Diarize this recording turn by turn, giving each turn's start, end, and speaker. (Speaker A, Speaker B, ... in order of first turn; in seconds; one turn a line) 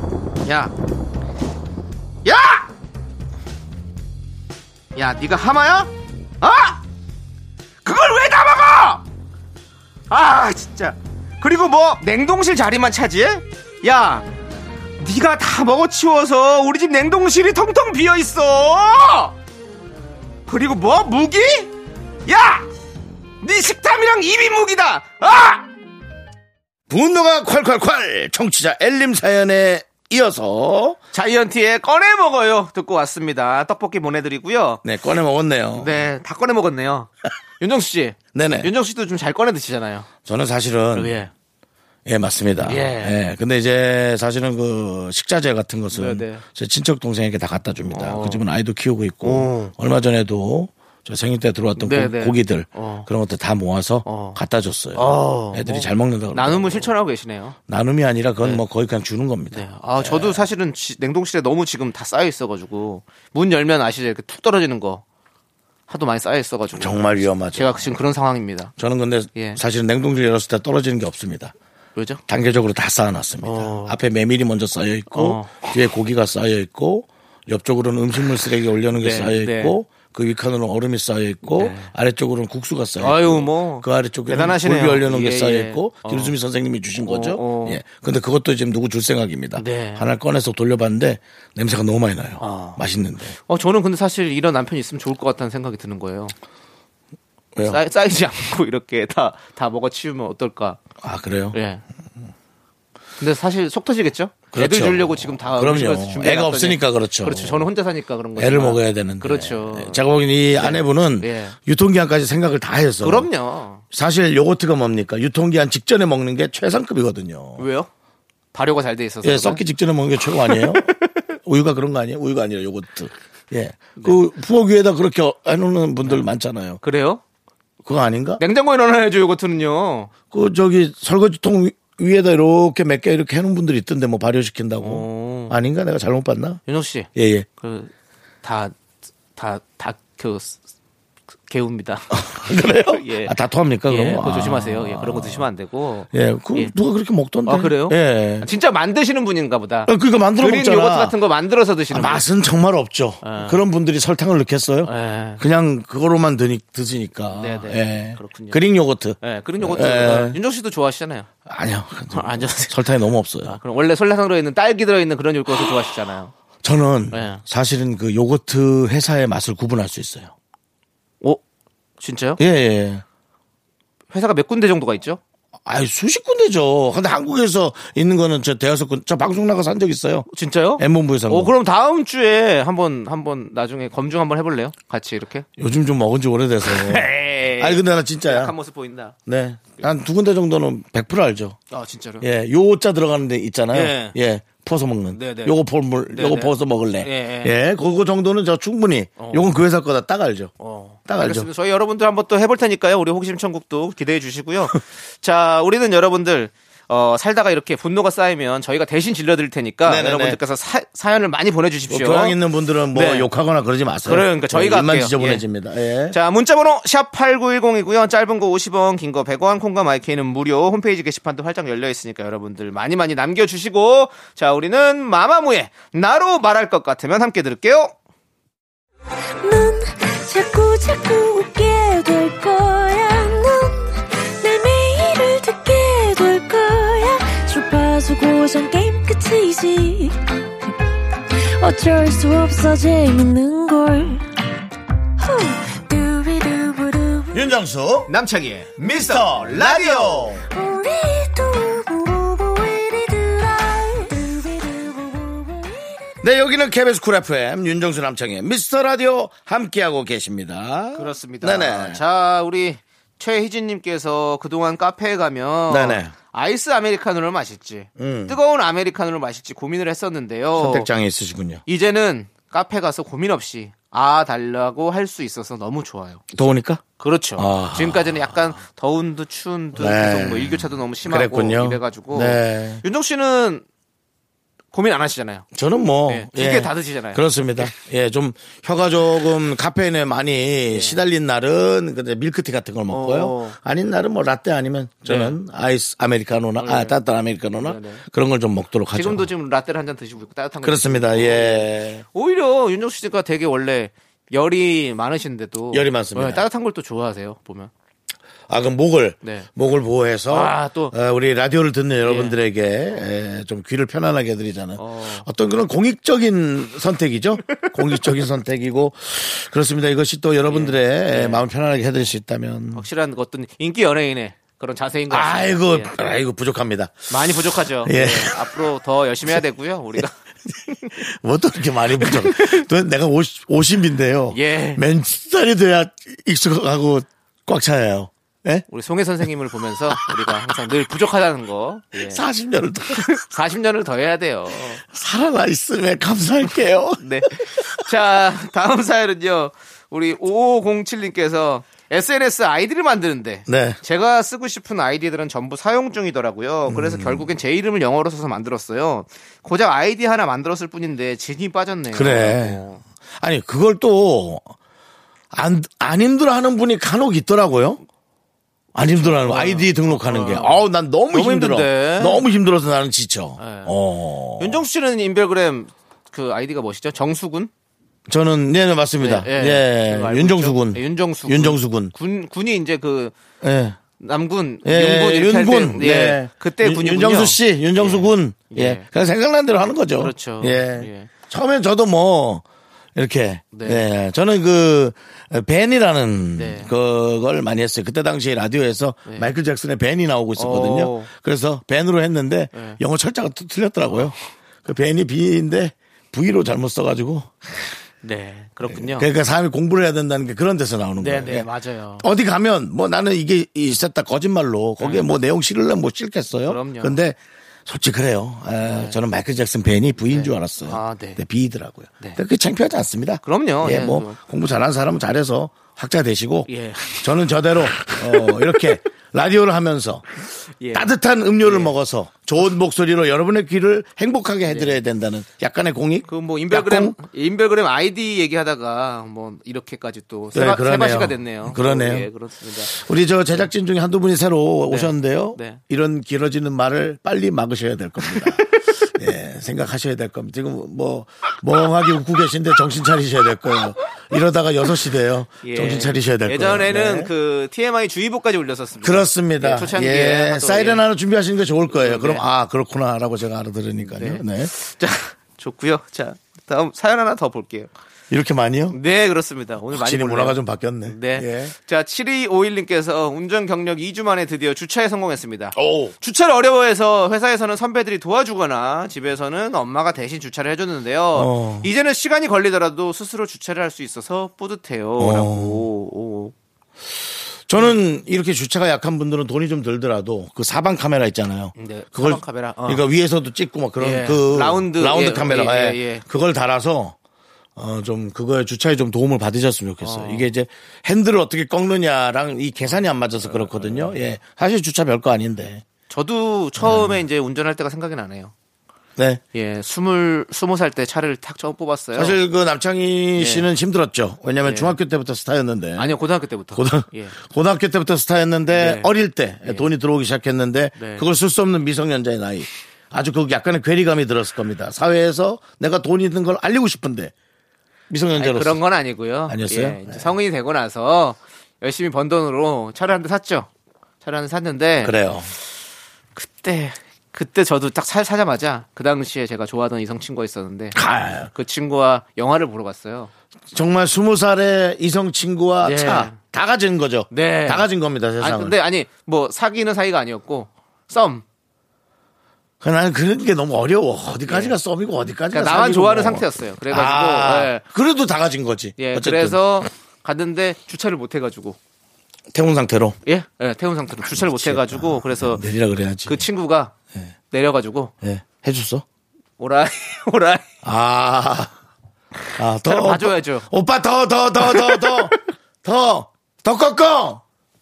Speaker A: 0.4-0.7
Speaker A: 2.2-2.7
Speaker A: 5.0-6.8
Speaker A: 7.8-9.0
Speaker A: 10.1-14.2
Speaker A: 15.0-19.3
Speaker A: 20.5-21.7
Speaker A: 22.2-22.6
Speaker A: 23.4-25.6
Speaker B: 26.9-31.0
Speaker A: 31.1-34.8
Speaker B: 34.8-36.0
Speaker A: 35.8-37.1
Speaker A: 37.6-40.1
Speaker B: 38.3-38.7
Speaker B: 40.2-41.1
Speaker A: 40.9-41.3
Speaker B: 42.0-56.9
Speaker A: 42.6-43.2
Speaker A: 45.9-46.4
Speaker A: 47.9-48.4
Speaker A: 49.2-49.7
Speaker A: 51.8-53.1
Speaker A: 54.0-54.4
Speaker A: 54.9-57.6
Speaker B: 57.7-60.5
Speaker A: 59.5-65.0
Speaker A: 65.9-68.7
Speaker B: 66.7-67.9
Speaker B: 68.8-71.5
Speaker A: 69.3-69.6
Speaker A: 72.0-72.2
Speaker B: 72.3-93.3
Speaker A: 73.4-74.0
Speaker A: 75.1-75.7
Speaker A: 79.0-79.8
Speaker A: 81.5-81.9
Speaker A: 83.0-86.3
Speaker A: 87.0-87.8
Speaker A: 89.5-90.0
Speaker A: 92.4-92.8
Speaker A: 93.5-96.3
Speaker B: 97.5-97.8
Speaker A: 97.6-100.8
Speaker B: 101.0-101.6
Speaker A: 101.5-101.8
Speaker A: 103.2-110.0
Speaker B: 104.5-107.7
Speaker B: 108.3-113.3
Speaker A: 110.5-111.5
Speaker A: 113.0-113.8
Speaker B: 113.9-117.7
Speaker A: 117.6-117.9
Speaker A: 118.5-119.6
Speaker B: 119.2-126.8
Speaker A: 120.3-120.9
Speaker A: 126.8-127.2
Speaker B: 127.8-128.4
Speaker A: 128.4-130.1
Speaker B: 130.3-136.6
Speaker A: 134.8-135.6
Speaker A: 136.7-137.9
Speaker B: 137.1-137.5
Speaker A: 138.4-138.7
Speaker A: 139.3-140.6
Speaker A: 141.5-143.3
Speaker B: 142.1-145.4
Speaker A: 143.9-146.7
Speaker B: 146.1-148.5
Speaker A: 147.4-152.2
Speaker B: 149.8-151.2
Speaker B: 151.9-160.4
Speaker A: 153.2-153.6
Speaker A: 154.8-155.4
Speaker A: 157.3-158.6
Speaker A: 159.2-161.3
Speaker B: 161.4-163.6
Speaker A: 162.1-162.8
Speaker A: 163.4-166.3
Speaker B: 166.6-170.3
Speaker A: 167.1-167.4
Speaker A: 172.0-172.4
Speaker B: 172.4-173.0
Speaker A: 174.1-175.2
Speaker B: 175.6-180.3
Speaker A: 180.3-185.4
Speaker B: 180.8-181.5
Speaker B: 185.6-188.5
Speaker A: 186.6-189.1
Speaker B: 189.2-191.6
Speaker A: 191.7-192.2
Speaker B: 192.2-200.5
Speaker A: 193.7-194.2
Speaker A: 195.1-195.6
Speaker A: 196.1-197.5
Speaker A: 199.2-199.5
Speaker A: 200.6-212.4
Speaker B: 201.1-201.5
Speaker B: 209.8-210.4
Speaker B: 211.9-216.2
Speaker A: 212.9-213.3
Speaker A: 214.1-215.4
Speaker A: 216.1-227.9
Speaker C: 229.4-240.7
Speaker C: 241.3-244.3
Speaker C: 245.2-247.5
Speaker B: 247.3-248.1
Speaker A: 248.1-250.4
Speaker B: 248.8-250.4
Speaker C: 250.5-256.2
Speaker B: 256.2-262.0
Speaker A: 260.9-270.9
Speaker B: 265.7-266.1
Speaker B: 268.0-268.4
Speaker B: 270.5-271.6
Speaker A: 271.7-276.3
Speaker B: 276.3-276.8
Speaker A: 277.0-283.6
Speaker B: 277.4-278.4
Speaker B: 279.8-282.8
Speaker A: 284.7-285.4
Speaker B: 285.5-299.3
Speaker A: 286.1-287.7
Speaker A: 290.7-291.0
Speaker A: 292.9-293.6
Speaker A: 295.0-295.4
Speaker A: 296.6-298.0
Speaker A: 298.9-307.7
Speaker B: 300.6-302.0
Speaker B: 305.7-306.4
Speaker B: 308.5-322.9
Speaker A: 309.2-309.5
Speaker A: 310.3-310.9
Speaker A: 312.0-312.4
Speaker A: 314.8-315.3
Speaker A: 317.6-318.1
Speaker A: 320.5-321.4
Speaker A: 322.7-326.1
Speaker B: 325.1-328.5
Speaker A: 327.1-330.1
Speaker A: 330.7-330.9
Speaker B: 330.9-338.6
Speaker A: 331.9-332.6
Speaker A: 334.3-334.8
Speaker A: 338.7-342.2
Speaker B: 340.0-340.5
Speaker B: 341.9-343.2
Speaker A: 342.9-344.8
Speaker B: 344.6-347.6
Speaker A: 347.0-362.8
Speaker B: 353.5-353.8
Speaker B: 356.7-357.3
Speaker B: 361.9-362.6
Speaker B: 363.2-364.5
Speaker B: 365.3-367.8
Speaker B: 368.7-374.6
Speaker A: 368.9-372.2
Speaker A: 373.4-373.7
Speaker A: 374.4-377.5
Speaker B: 378.1-381.9
Speaker A: 379.0-383.1
Speaker B: 383.4-383.8
Speaker A: 384.0-388.9
Speaker B: 384.6-407.3
Speaker A: 389.9-391.1
Speaker A: 393.5-393.8
Speaker A: 396.4-396.7
Speaker A: 399.1-399.3
Speaker A: 400.4-401.1
Speaker A: 402.5-402.8
Speaker A: 408.0-409.1
Speaker B: 408.6-430.0
Speaker A: 411.0-412.1
Speaker A: 414.8-415.1
Speaker A: 416.4-416.9
Speaker A: 418.6-419.0
Speaker A: 420.0-421.2
Speaker A: 423.2-424.2
Speaker A: 426.5-427.1
Speaker A: 427.8-428.6
Speaker A: 430.6-431.7
Speaker B: 430.7-437.0
Speaker A: 434.5-434.8
Speaker A: 436.1-442.8
Speaker B: 440.3-442.1
Speaker B: 442.6-457.1
Speaker A: 444.7-445.6
Speaker A: 448.0-448.4
Speaker A: 455.4-460.8
Speaker B: 458.8-464.5
Speaker A: 461.7-462.2
Speaker A: 463.9-467.7
Speaker B: 468.1-468.8
Speaker A: 468.7-486.3
Speaker B: 469.7-471.5
Speaker B: 475.5-475.9
Speaker B: 481.1-481.7
Speaker B: 485.0-485.7
Speaker B: 487.5-496.9
Speaker A: 491.6-492.8
Speaker A: 493.8-496.0
Speaker B: 497.6-505.6
Speaker A: 499.8-500.3
Speaker A: 503.2-504.0
Speaker A: 505.9-508.3
Speaker B: 506.6-507.0
Speaker B: 509.0-509.2
Speaker A: 509.3-512.1
Speaker B: 511.9-515.9
Speaker A: 513.2-513.5
Speaker A: 514.4-514.8
Speaker A: 515.8-517.1
Speaker B: 516.5-527.1
Speaker A: 518.5-518.9
Speaker A: 520.8-521.0
Speaker B: 527.9-528.6
Speaker A: 528.1-533.5
Speaker B: 529.3-530.1
Speaker A: 534.0-535.0
Speaker B: 534.8-535.3
Speaker A: 536.1-543.1
Speaker B: 540.7-541.3
Speaker B: 543.5-548.5
Speaker A: 545.6-546.2
Speaker A: 547.1-551.2
Speaker B: 552.6-559.4
Speaker A: 554.2-554.6
Speaker A: 555.3-557.6
Speaker A: 558.8-561.6
Speaker B: 562.3-563.0
Speaker A: 563.0-565.4
Speaker B: 564.0-566.2
Speaker A: 566.0-566.7
Speaker A: 567.3-567.9
Speaker B: 568.0-568.8
Speaker A: 569.4-570.4
Speaker B: 570.6-571.5
Speaker B: 572.4-577.2
Speaker A: 572.6-573.5
Speaker A: 574.4-575.1